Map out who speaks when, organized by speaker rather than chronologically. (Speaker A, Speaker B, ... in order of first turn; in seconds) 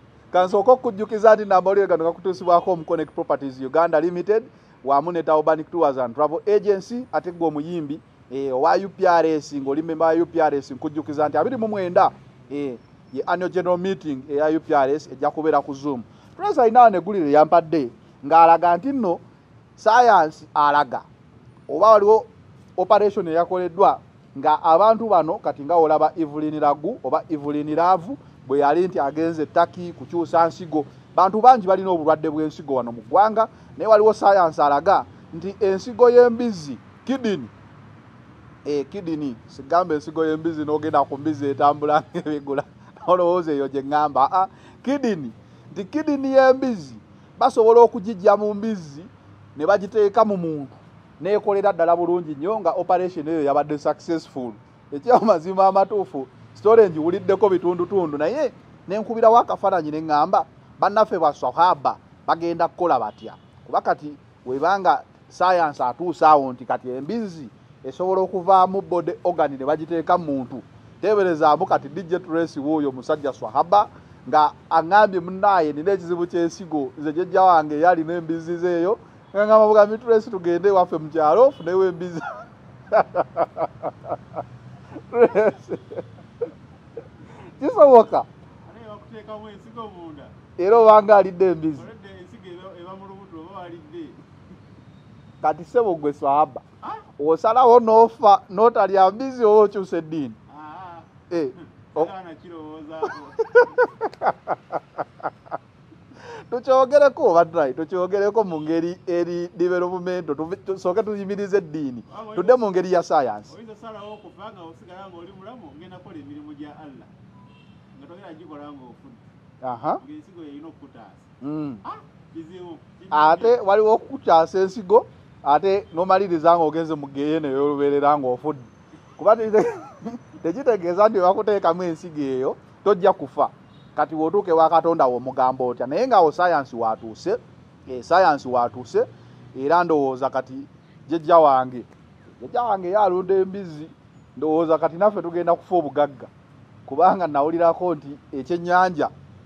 Speaker A: 0.3-0.6, 88.7-90.3, 91.7-94.2, 100.5-101.1, 101.9-103.9, 112.1-112.7, 113.5-117.1, 117.9-119.2, 120.0-121.2, 121.8-123.6
Speaker B: 0.3-19.2, 19.8-21.1, 21.7-37.5, 38.6-84.1, 85.1-86.0, 87.6-88.3, 90.6-91.8, 95.4-96.6, 97.2-100.4, 101.3-102.1, 103.5-105.2, 106.5-113.5, 119.6-120.0, 121.4-121.8, 123.1-128.7, 129.2-141.9, 142.4-146.3, 146.9-149.1